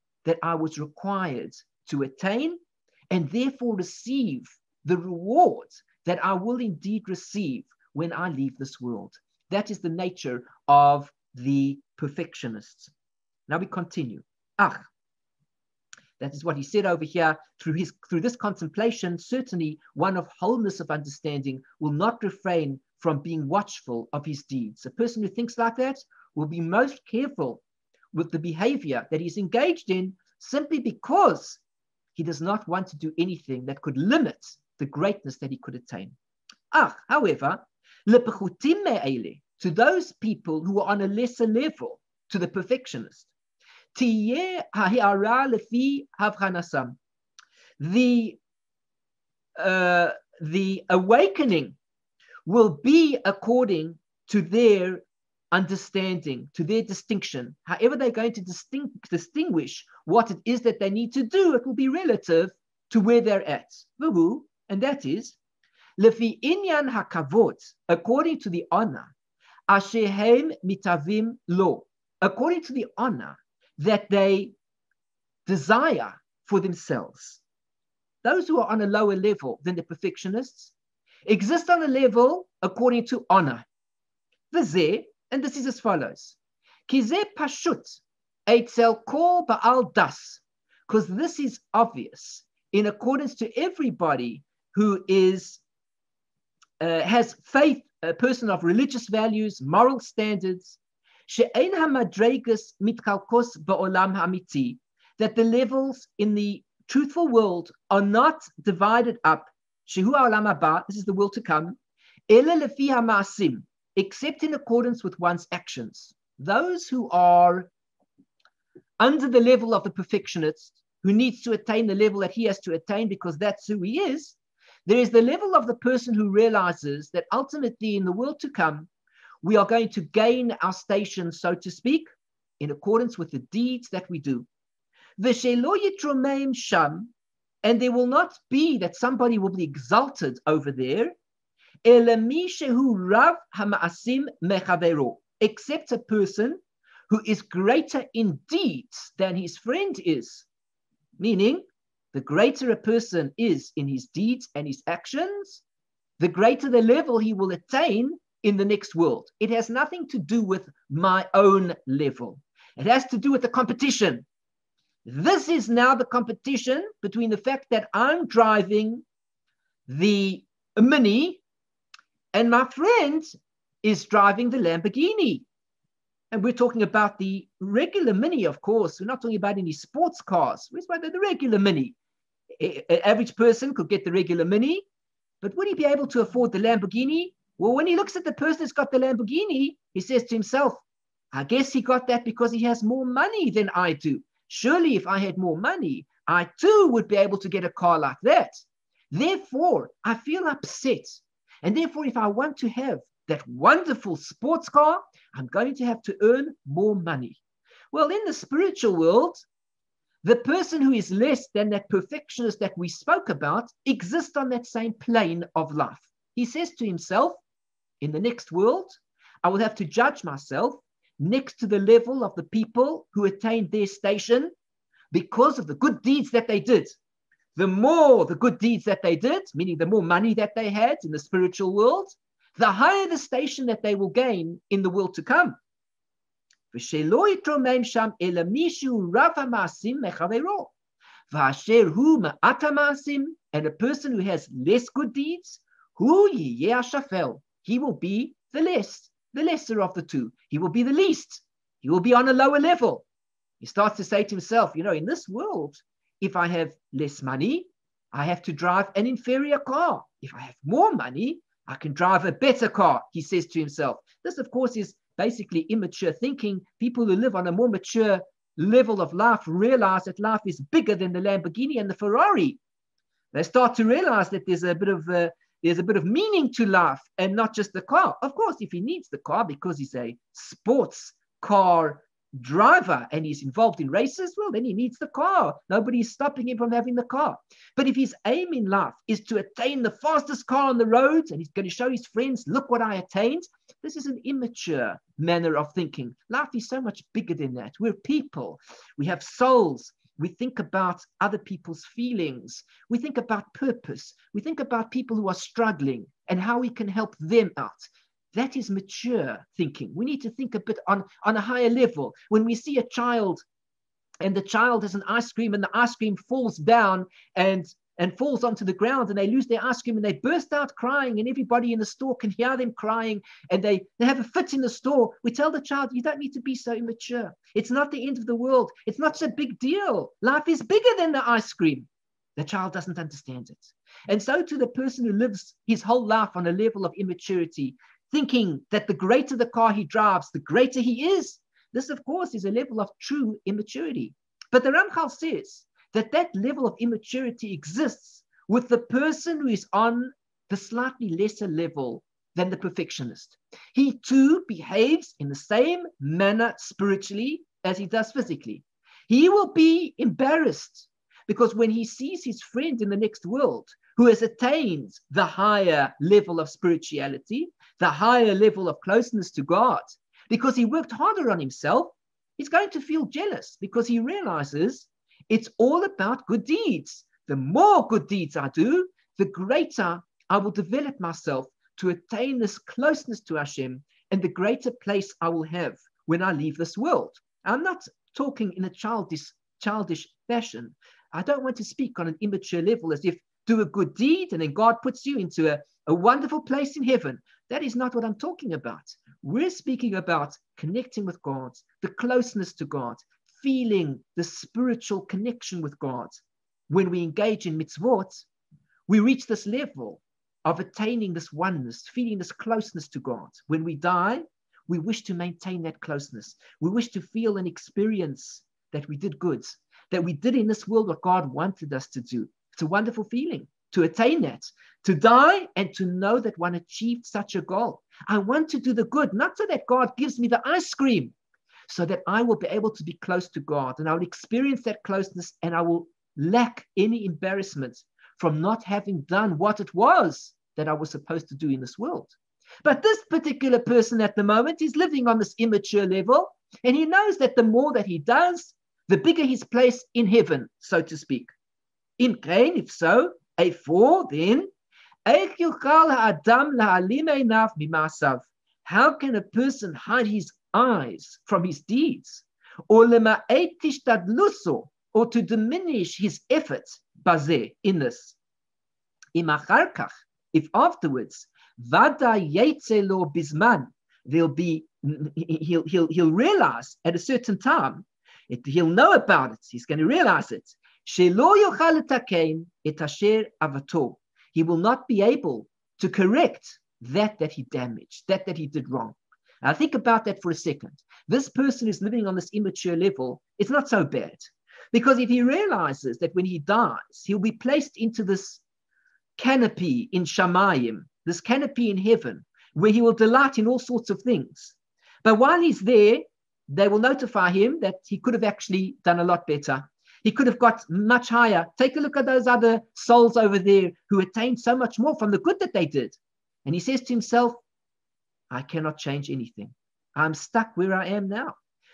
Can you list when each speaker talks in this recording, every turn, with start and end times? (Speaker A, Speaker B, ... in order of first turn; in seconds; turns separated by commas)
Speaker A: 0.2-2.6, Speaker A: 3.1-12.9, Speaker A: 13.5-14.8, Speaker A: 16.2-27.6, Speaker A: 28.1-31.6, Speaker A: 32.1-36.2, Speaker A: 36.7-43.3, Speaker A: 43.9-47.0, Speaker A: 47.8-48.4, Speaker A: 49.6-51.8, Speaker A: 52.5-65.4, Speaker A: 66.0-69.1, Speaker A: 69.7-74.5, Speaker A: 75.5-77.4, Speaker A: 78.2-80.7, Speaker A: 81.3-83.7, Speaker A: 84.5-86.4, Speaker A: 86.9-95.6, Speaker A: 96.8-111.8, Speaker A: 112.3-117.7, Speaker A: 119.0-128.9, Speaker A: 129.4-132.1, Speaker A: 132.6-134.5, Speaker A: 135.2-137.1, Speaker A: 137.6-141.1, Speaker A: 141.8-150.5, Speaker A: 151.2-155.6, Speaker A: 156.2-164.3, Speaker A: 165.1-169.0, Speaker A: 169.9-171.4, Speaker A: 172.3-173.3, Speaker A: 173.8-175.4, Speaker A: 176.3-182.0, Speaker A: 182.6-184.8, Speaker A: 185.4-207.4, Speaker A: 207.9-209.4, Speaker A: 210.2-217.4, Speaker A: 218.0-224.5, Speaker A: 225.1-226.9, Speaker A: 227.6-235.6, Speaker A: 236.7-240.7, Speaker A: 241.3-253.1, Speaker A: 253.6-272.6, Speaker A: 273.3-313.4, Speaker A: 314.2-408.3, Speaker A: 408.9-431.1, Speaker A: 431.7-451.3, Speaker A: 452.0-454.5, Speaker A: 455.1-468.2, Speaker A: 469.1-498.4, Speaker A: 499.2-517.4, Speaker A: 518.3-521.4